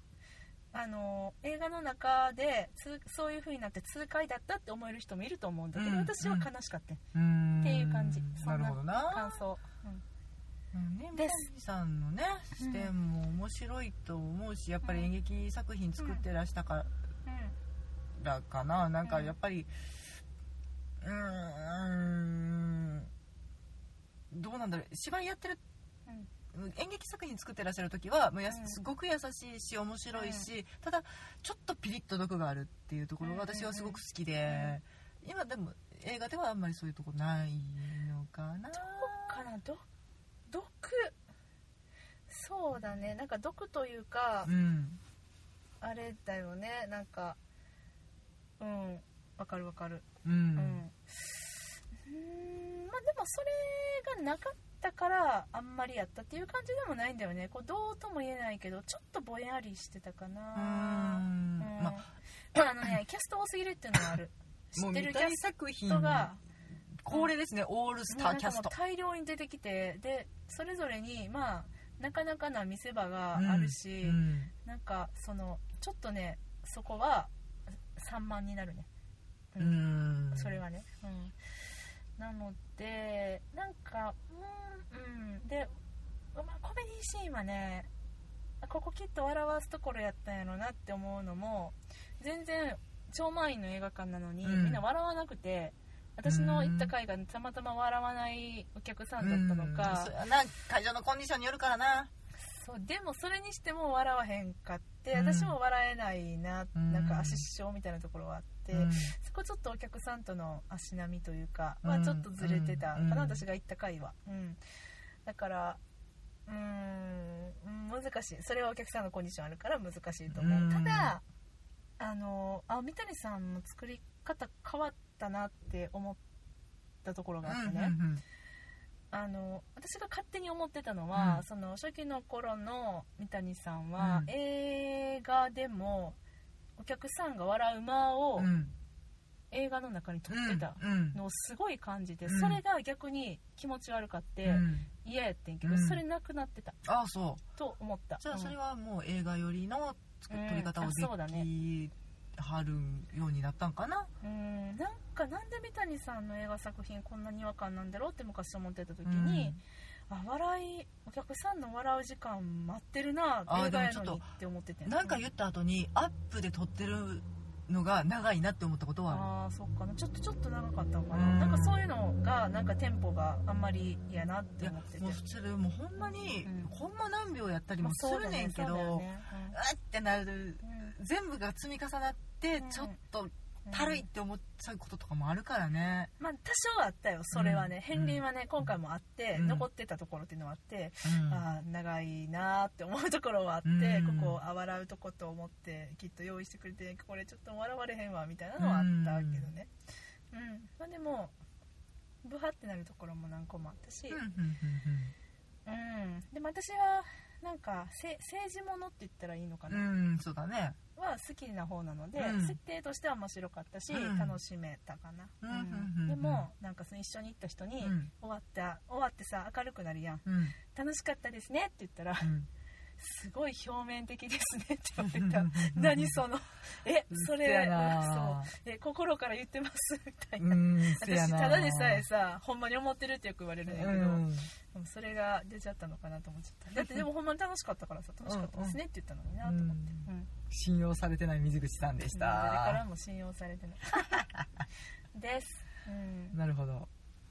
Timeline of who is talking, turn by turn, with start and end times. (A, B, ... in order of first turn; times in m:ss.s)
0:00.7-0:07.0 A
0:05.7-0:06.5 B
0:07.1-0:09.4 B
0:07.6-0:10.0 A
0:10.7-0:16.9 B
0:11.1-0:11.5 A
0:12.6-0:12.9 A
0:14.8-0:15.1 A
0:16.0-0:16.2 A
0:17.2-0:17.6 A
0:18.2-0:19.7 B
0:19.0-0:19.3 A
0:21.0-0:23.1 B
0:24.3-0:25.6 B
0:26.5-0:39.4 B
0:28.5-0:28.8 A
0:30.1-0:30.5 A
0:33.2-0:34.8 A
0:38.7-0:39.8 A
0:40.5-0:41.2 A
0:42.3-0:44.5 A
0:44.4-0:45.0 B
0:45.8-0:47.4 A
0:48.6-1:06.4 A
0:50.2-0:50.8 B
1:00.5-1:02.9 B
1:04.8-1:06.3 B
1:07.0-1:08.7 B
1:08.1-1:17.3 A
1:13.4-1:14.5 B
1:17.9-1:18.9 A
1:19.5-1:19.8 A
1:19.6-1:20.6 B
1:20.3-1:21.5 A
1:22.2-1:25.7 A
1:26.3-1:27.9 A
1:28.6-1:40.1 A
1:34.4-1:34.8 B
1:36.2-1:36.9 B
1:39.2-1:42.1 B
1:42.4-1:54.6 A
1:45.1-1:45.6 B
1:46.7-1:47.4 B
1:48.7-1:49.1 B
1:51.8-1:53.4 B
1:55.2-1:55.8 A
1:56.4-2:01.2 A
2:00.3-2:01.2 B
2:02.0-2:06.2 A
2:07.0-2:08.0 A
2:07.4-2:08.2 B
2:09.1-2:16.2 A
2:11.1-2:11.4 B
2:14.0-2:14.3 B
2:16.8-2:18.5 A
2:18.4-2:18.7 B
2:19.5-2:26.8 A
2:20.3-2:21.2 B
2:22.2-2:22.6 B
2:24.4-2:24.9 B
2:25.6-2:26.0 B
2:26.8-2:27.4 B
2:27.6-2:28.5 A
2:28.2-2:34.1 B
2:30.3-2:31.5 A
2:34.2-2:39.6 A
2:39.0-2:39.6 B
2:40.1-2:45.2 A
2:43.5-2:44.3 B
2:44.8-2:49.2 B
2:49.1-2:55.2 A
2:51.1-2:51.8 B
2:54.6-3:06.1 B
2:56.0-2:56.7 A
2:57.8-2:59.6 A
3:00.6-3:00.9 A
3:02.6-3:03.0 A
3:03.7-3:04.0 A
3:06.2-3:19.7 A
3:07.3-3:08.6 B
3:09.3-3:09.7 B
3:11.0-3:11.4 B
3:13.6-3:14.4 B
3:18.6-3:19.5 B
3:20.3-3:21.3 A
3:22.2-3:24.2 A
3:24.1-3:25.1 B
3:25.6-3:29.8 A
3:29.7-3:30.8 B
3:31.0-3:42.3 A
3:32.2-3:32.6 B
3:33.9-3:34.4 B
3:35.4-3:36.5 B
3:37.8-3:38.1 B
3:40.2-3:40.6 B
3:42.2-3:42.5 B
3:43.0-4:00.3 A
3:45.0-3:46.2 B
3:47.1-3:48.5 B
3:50.4-3:52.0 B
3:53.6-3:54.5 B
3:58.2-3:58.8 B
3:59.4-4:02.8 B
4:02.1-4:04.3 A
4:03.9-4:04.6 B
4:05.1-4:06.4 A
4:06.3-4:06.9 B